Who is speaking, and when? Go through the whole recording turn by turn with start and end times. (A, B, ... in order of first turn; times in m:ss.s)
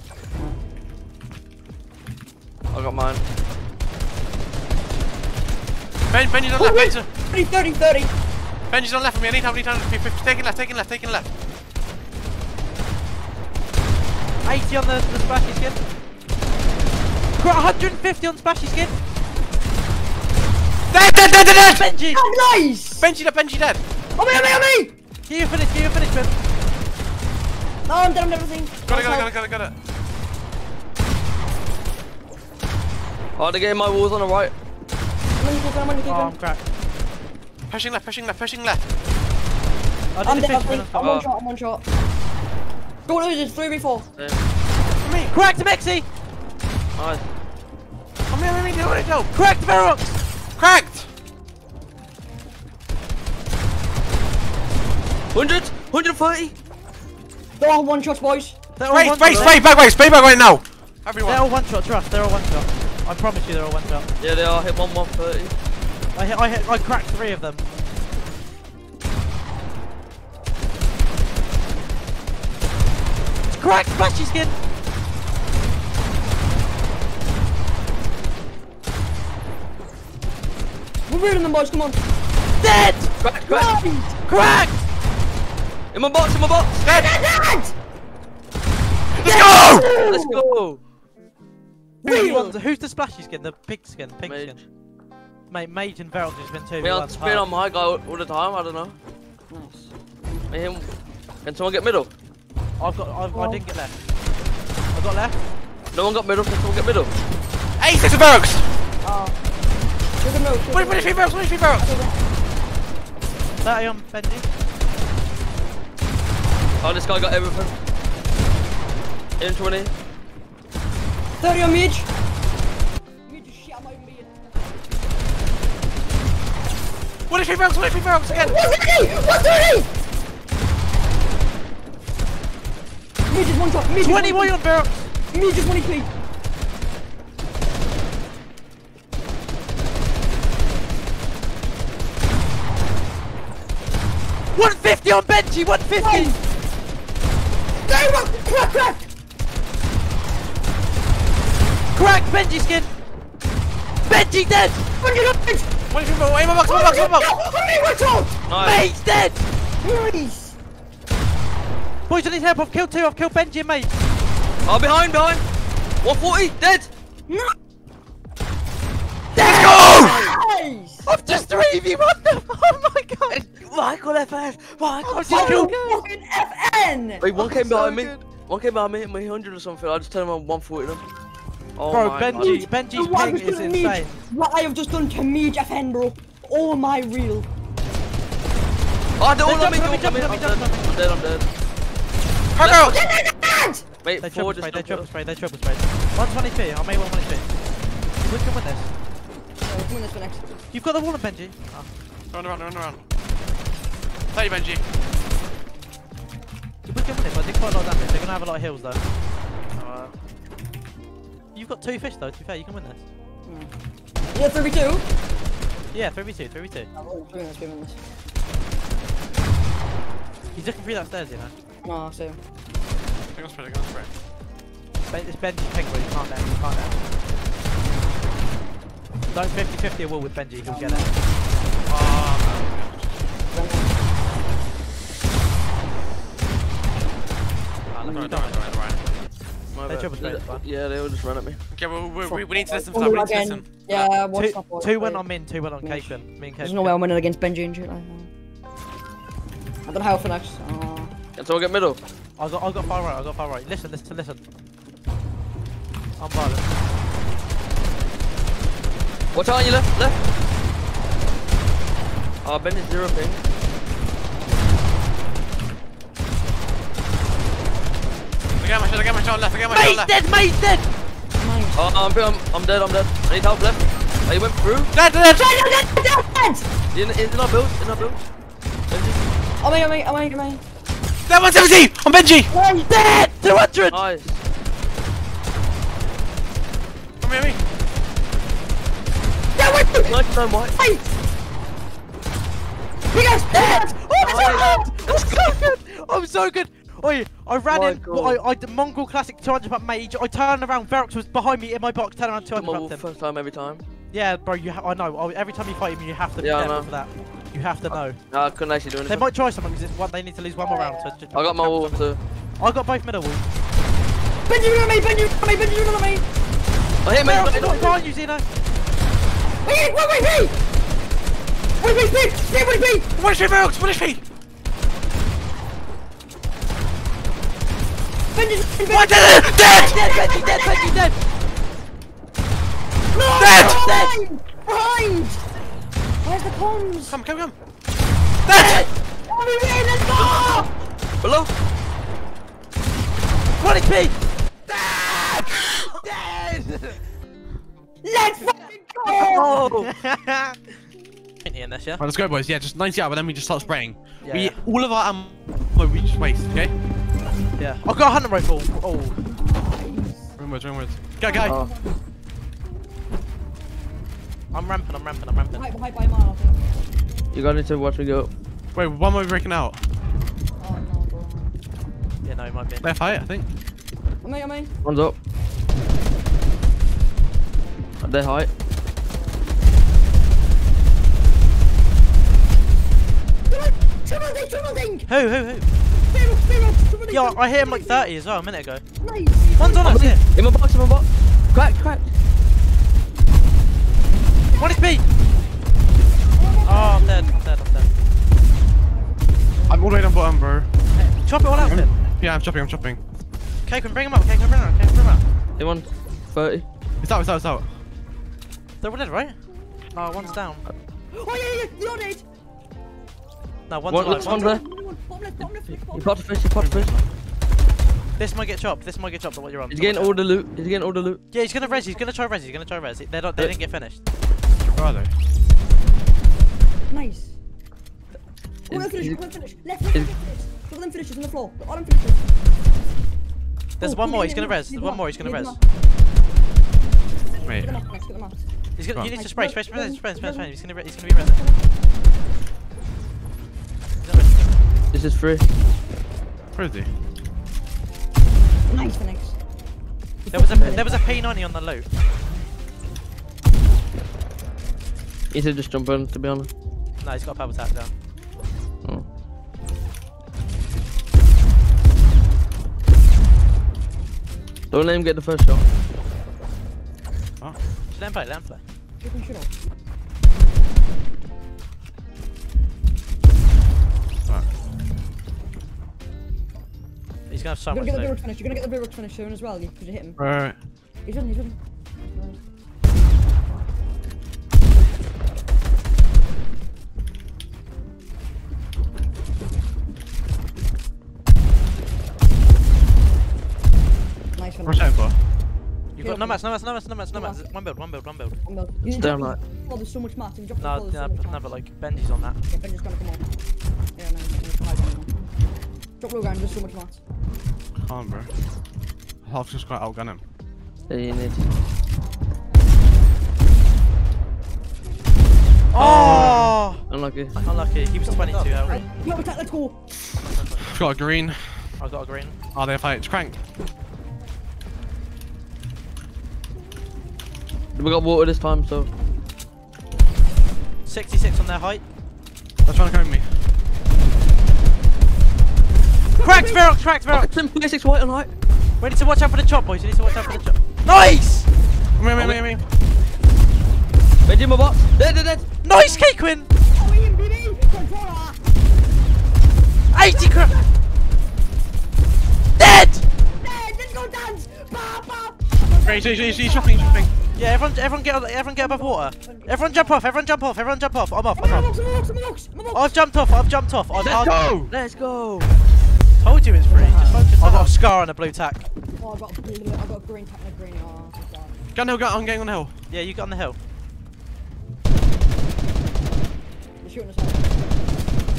0:02.7-0:03.2 A
0:06.1-0:07.1 B
0:06.6-0:08.1 C
0:08.7-0:11.3 B
0:14.4-0:15.8 D
0:17.4-0:18.9 D
0:20.9-0:21.9 B
0:21.5-0:22.2 D
0:22.1-0:23.0 C
0:23.0-0:23.8 B
0:24.2-0:24.9 C
0:25.3-0:26.3 D
0:27.9-0:29.3 C
0:28.9-0:29.7 B
0:33.4-0:34.5 A
0:35.4-0:36.4 C
0:36.1-0:36.6 D
0:37.7-0:38.8 B
0:40.1-0:41.2 D
0:40.2-0:41.8 C
0:41.0-0:41.3 A
0:43.0-0:44.1 C
0:45.0-0:45.3 B
0:45.3-0:46.0 D
0:47.0-0:47.2 A
0:48.3-0:49.3 B
0:49.3-0:50.1 D
0:50.6-0:51.1 B
0:55.3-0:56.5 A
0:57.6-0:58.6 C
0:58.8-0:59.6 D
0:58.9-1:01.4 B
1:01.2-1:04.1 D
1:04.2-1:05.5 A
1:06.1-1:07.6 D
1:13.6-1:14.5 D
1:21.1-1:22.0 C
1:22.6-1:23.1 D
1:23.2-1:23.7 A
1:23.5-1:24.2 C
1:24.3-1:24.8 D
1:25.9-1:26.8 A
1:26.8-1:27.1 B
1:26.8-1:27.7 C
1:29.1-1:29.9 B
1:29.2-1:29.6 D
1:29.6-1:30.4 C
1:30.0-1:30.8 A
1:32.0-1:32.6 C
1:32.0-1:34.6 D
1:34.2-1:34.6 A
1:35.5-1:37.4 D
1:36.8-1:39.0 A
1:39.5-1:39.9 C
1:40.5-1:40.9 A
1:41.4-1:42.1 A
1:42.8-1:44.0 D
1:43.3-1:43.6 C
1:44.9-1:45.4 D
1:45.9-1:47.1 A
1:47.8-1:48.7 B
1:49.0-1:49.4 C
1:50.2-1:52.2 C
1:50.7-1:51.8 B
1:53.6-1:54.4 D
1:56.8-1:57.7 A
1:59.4-1:59.9 A
2:01.4-2:02.1 C
2:03.2-2:04.3 C
2:07.3-2:08.6 B
2:08.3-2:09.9 C
2:13.3-2:14.6 C
2:14.0-2:15.1 D
2:15.3-2:16.1 C
2:24.5-2:26.3 D
2:26.0-2:26.4 C
2:27.8-2:29.1 C
2:31.9-2:32.9 D
2:34.0-2:34.8 D
2:35.0-2:35.7 C
2:35.9-2:37.3 B
2:36.6-2:38.4 C
2:38.5-2:38.8 A
2:38.5-2:39.4 D
2:39.8-2:40.6 C
2:42.1-2:43.9 D
2:44.6-2:45.4 A
2:46.0-2:46.9 A
2:47.3-2:47.5 C
2:49.3-2:50.3 D
2:49.4-2:51.0 C
2:49.4-2:50.3 A
2:51.1-2:53.4 D
2:53.3-2:55.7 A
2:55.0-2:56.0 D
2:55.3-2:58.0 C
2:57.2-3:01.0 A
2:57.4-2:58.2 D
3:01.8-3:02.7 A
3:01.9-3:04.1 D
3:02.3-3:07.5 C
3:09.2-3:11.4 A
3:09.4-3:11.0 D
3:12.5-3:13.0 B
3:12.6-3:12.9 D
3:12.6-3:13.8 C
3:14.0-3:15.0 A
3:14.2-3:17.5 D
3:18.2-3:18.9 D
3:19.6-3:20.5 C
3:20.7-3:21.9 D
3:22.3-3:23.0 B
3:24.3-3:24.8 B
3:26.8-3:29.0 D
3:29.8-3:30.1 A
3:31.5-3:33.0 D
3:33.4-3:33.7 C
3:34.3-3:35.0 C
3:35.9-3:36.9 D
3:36.9-3:38.0 C
3:40.5-3:41.5 D
3:41.8-3:42.4 C
3:43.3-3:44.1 B
3:45.1-3:47.0 D
3:49.3-3:51.1 D
3:50.7-3:51.1 C
3:51.9-3:53.2 B
3:53.5-3:54.0 C
3:57.9-3:58.8 D
3:58.0-3:58.3 C
3:58.0-3:59.0 B
3:59.7-4:01.6 A
3:59.9-4:00.6 D
4:01.7-4:03.7 B
4:02.2-4:05.2 C
4:03.9-4:06.9 D
4:05.8-4:08.3 C
4:09.8-4:11.1 C
4:11.4-4:12.0 A
4:12.4-4:14.4 D
4:16.2-4:16.7 D
4:19.3-4:20.2 A
4:22.4-4:23.4 A
4:28.6-4:30.1 B
4:29.7-4:30.8 D
4:31.4-4:31.9 C
4:31.7-4:34.9 A
4:34.9-4:35.5 B
4:35.2-4:36.7 C
4:36.9-4:38.2 A
4:38.9-4:39.2 A
4:39.6-4:40.6 C
4:41.3-4:42.5 B
4:42.5-4:44.0 D
4:43.9-4:44.4 A
4:47.2-4:47.6 B
4:49.6-4:50.2 C
4:50.0-4:50.7 A
4:50.7-4:51.1 C
4:53.1-4:55.6 C
4:53.5-5:03.0 D
4:54.2-4:54.8 A
4:57.7-4:58.4 A
5:02.5-5:03.8 A
5:04.1-5:08.2 D
5:06.4-5:06.9 A
5:07.9-5:09.3 A
5:09.1-5:12.0 D
5:10.6-5:11.1 C
5:11.3-5:12.2 A
5:12.6-5:13.4 D
5:14.5-5:16.2 C
5:17.0-5:17.9 A
5:17.2-5:18.4 D
5:19.6-5:20.5 C
5:21.8-5:23.1 C
5:23.2-5:24.2 B
5:28.3-5:31.0 C
5:28.9-5:31.1 D
5:33.1-5:35.4 C
5:33.3-5:34.1 D
5:33.5-5:33.8 B
5:36.2-5:37.2 C
5:37.1-5:37.5 B
5:38.4-5:38.9 B
5:38.5-5:40.7 C
5:40.2-5:40.6 A
5:41.2-5:41.5 A
5:43.6-5:44.1 D
5:44.7-5:45.8 C
5:45.9-5:47.0 D
5:48.0-5:49.6 C
5:49.1-5:50.6 D
5:49.2-5:49.9 A
5:51.4-5:52.0 D
5:52.0-5:56.7 B
5:54.2-5:54.6 D
5:57.6-5:59.2 D
5:59.3-6:00.3 C
6:00.4-6:01.6 B
6:01.2-6:01.9 C
6:01.4-6:01.7 A
6:04.5-6:05.6 D
6:05.5-6:06.7 C
6:07.3-6:08.3 A
6:08.7-6:09.8 B
6:10.6-6:11.5 C
6:12.2-6:12.8 D
6:12.8-6:13.5 B
6:14.2-6:14.7 C
6:14.8-6:15.2 A
6:18.0-6:18.5 A
6:19.1-6:19.4 C
6:23.5-6:25.1 C
6:25.1-6:25.6 D
6:26.1-6:28.1 C
6:27.1-6:28.8 D
6:29.0-6:30.0 C
6:29.6-6:30.2 D
6:29.8-6:32.1 A
6:34.5-6:34.9 C
6:34.6-6:35.0 D
6:36.3-6:37.4 C
6:36.6-6:37.9 D
6:38.8-6:39.9 C
6:39.7-6:40.7 B
6:40.9-6:41.9 D
6:41.5-6:43.0 B
6:43.6-6:45.2 D
6:45.6-6:46.6 A
6:47.0-6:47.7 B
6:48.8-6:49.4 D
6:49.9-6:50.6 D
6:51.1-6:52.2 C
6:53.7-6:54.5 D
6:53.9-6:54.6 A
6:54.0-6:56.1 C
6:55.9-6:56.9 A
6:56.6-6:57.0 B
6:58.2-7:00.2 D
6:59.7-7:01.2 A
7:01.3-7:04.0 D
7:01.6-7:02.1 C
7:04.7-7:05.1 B
7:06.9-7:07.3 C
7:08.7-7:12.2 C
7:08.7-7:09.2 A
7:13.8-7:15.6 D
7:13.8-7:15.6 C
7:17.4-7:17.8 B
7:17.5-7:18.4 C
7:18.8-7:21.4 D
7:19.0-7:20.5 C
7:21.1-7:21.6 C
7:24.0-7:24.6 D
7:24.9-7:25.4 A
7:26.5-7:26.9 B
7:28.7-7:29.4 C
7:30.2-7:31.2 C
7:30.3-7:31.8 D
7:30.5-7:30.8 A
7:35.3-7:36.5 A
7:37.0-7:37.9 D
7:44.7-7:45.6 A
7:47.9-7:48.6 D
7:49.0-7:49.5 C
7:57.3-7:58.2 D
7:57.7-8:00.2 C
8:00.2-8:00.6 B
8:01.0-8:01.6 C
8:02.1-8:02.4 C
8:14.4-8:14.8 C
8:14.6-8:15.2 B
8:15.9-8:18.4 D
8:16.0-8:16.4 C
8:17.1-8:17.5 C
8:18.4-8:21.4 C
8:18.8-8:19.4 A
8:20.6-8:22.4 D
8:22.5-8:23.2 C
8:24.0-8:25.1 C
8:26.0-8:27.0 C
8:27.8-8:28.3 B
8:29.2-8:30.2 B
8:30.9-8:31.4 A
8:35.7-8:36.8 D
8:35.7-8:36.6 B
8:36.9-8:37.4 A
8:37.4-8:38.8 D
8:38.0-8:39.8 C
8:40.4-8:40.7 D
8:40.6-8:41.7 B
8:41.8-8:42.4 D
8:42.5-8:43.4 B
8:47.7-8:48.9 A
8:50.8-8:51.8 D
8:52.6-8:53.3 B
8:56.2-8:56.7 C
8:56.2-8:57.3 D
8:57.1-8:58.3 A
8:58.8-9:01.5 D
9:00.1-9:00.4 C
9:02.0-9:02.6 B
9:02.1-9:02.4 A
9:04.2-9:05.5 A
9:05.6-9:06.5 D
9:05.7-9:08.4 C
9:09.9-9:10.5 D
9:10.0-9:10.7 C
9:12.6-9:13.0 D
9:13.4-9:17.4 C
9:15.8-9:17.1 B
9:17.4-9:21.7 D
9:18.6-9:20.0 C
9:21.4-9:22.9 C
9:22.7-9:24.3 D
9:23.9-9:24.7 B
9:24.0-9:25.5 A
9:26.2-9:28.6 D
9:26.7-9:27.2 C
9:27.4-9:27.7 B
9:29.0-9:31.6 C
9:31.7-9:32.7 B
9:32.9-9:33.6 D
9:36.8-9:37.6 C